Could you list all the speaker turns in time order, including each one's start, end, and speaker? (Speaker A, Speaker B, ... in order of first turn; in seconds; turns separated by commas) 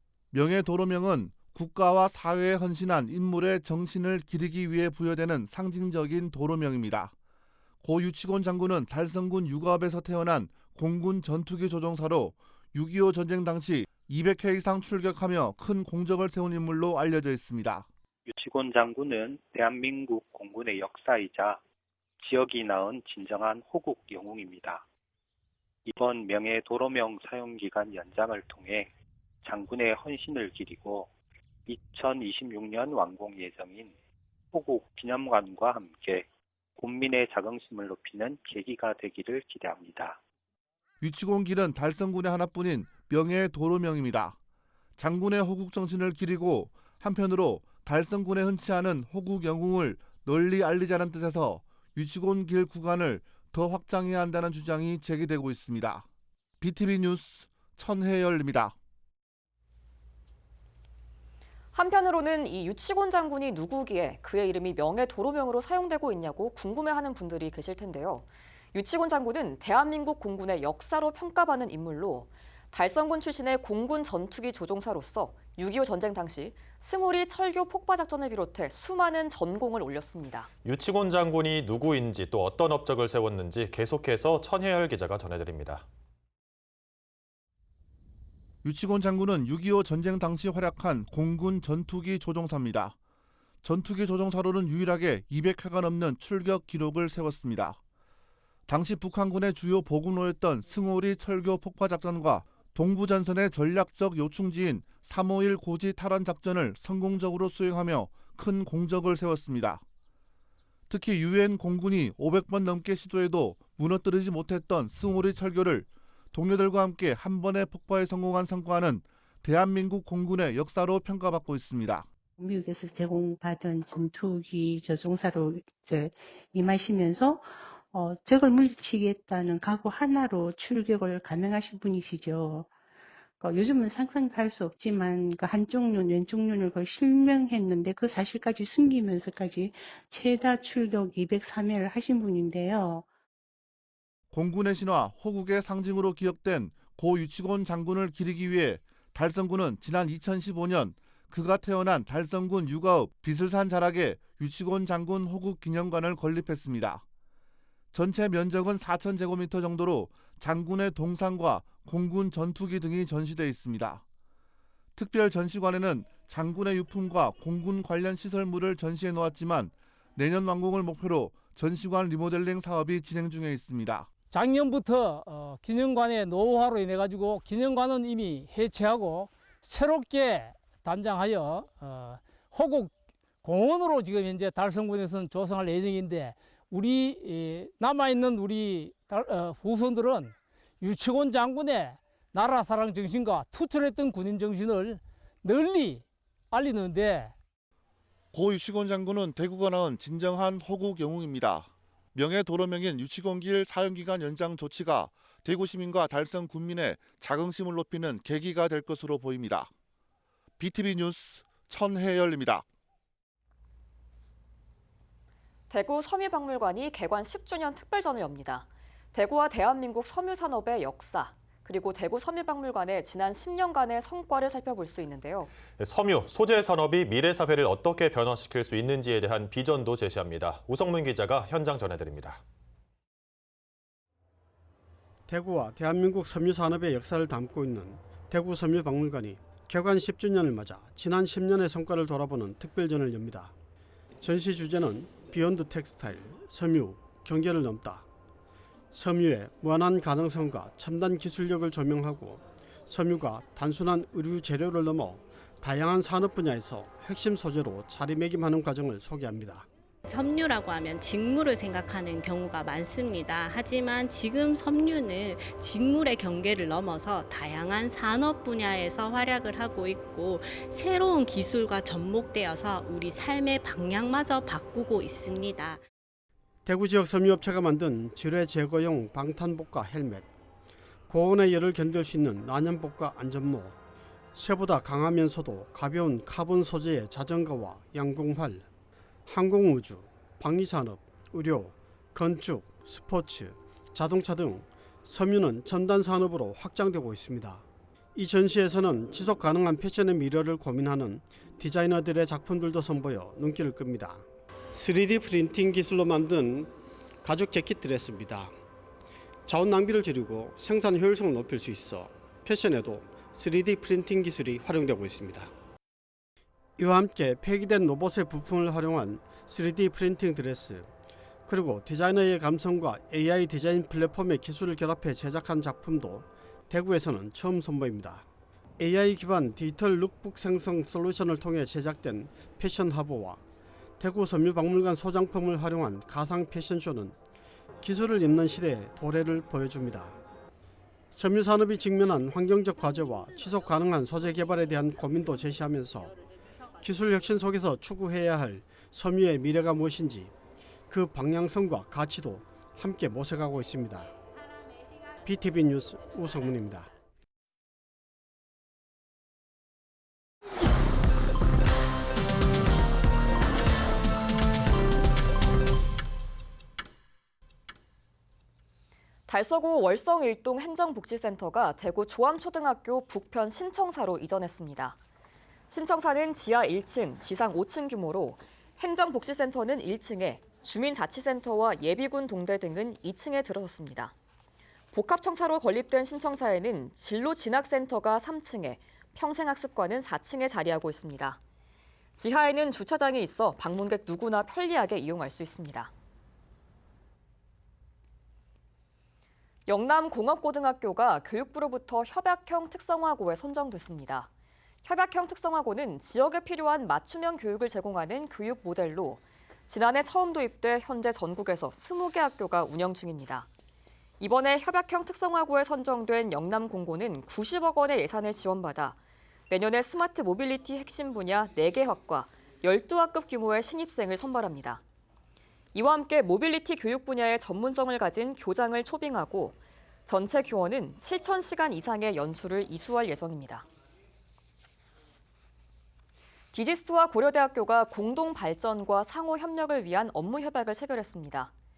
Speaker A: 0.3-7.2, Speaker A: 7.8-17.9, Speaker B: 18.3-21.6, Speaker B: 22.2-24.8, Speaker B: 25.9-28.9, Speaker B: 29.4-31.1, Speaker B: 31.7-34.0, Speaker B: 34.5-36.3, Speaker B: 36.8-40.2, Speaker A: 41.0-44.4, Speaker A: 45.0-56.1, Speaker A: 56.6-58.8, Speaker C: 61.7-80.5, Speaker D: 80.7-85.8, Speaker A: 88.6-93.0, Speaker A: 93.6-97.8, Speaker A: 98.7-109.8, Speaker A: 110.9-122.1, Speaker E: 122.4-132.7, Speaker E: 133.4-143.1, Speaker A: 144.3-157.0, Speaker A: 157.9-164.0, Speaker A: 165.0-174.1, Speaker F: 174.3-197.3, Speaker A: 198.3-209.7, Speaker A: 210.6-212.7, Speaker C: 215.7-225.5, Speaker D: 225.8-232.4, Speaker G: 235.3-243.5, Speaker G: 244.2-248.1, Speaker G: 248.9-259.7, Speaker H: 260.1-275.8, Speaker G: 276.6-280.3, Speaker G: 281.1-283.8, Speaker G: 284.4-288.7, Speaker G: 289.3-308.5, Speaker G: 309.5-315.5, Speaker G: 316.8-320.9, Speaker G: 321.5-328.3, Speaker G: 328.8-333.4, Speaker G: 334.0-337.1, Speaker G: 337.8-340.2, Speaker G: 341.1-346.2, Speaker G: 346.8-350.3, Speaker G: 350.9-354.1, Speaker G: 355.2-356.9, Speaker C: 369.3-375.0, Speaker C: 375.7-384.1, Speaker C: 384.9-391.4, Speaker C: 392.2-395.9, Speaker C: 399.7-404.3, Speaker C: 404.8-413.5, Speaker C: 414.2-419.0, Speaker C: 419.5-424.8, Speaker C: 425.7-433.7, Speaker C: 436.5-441.5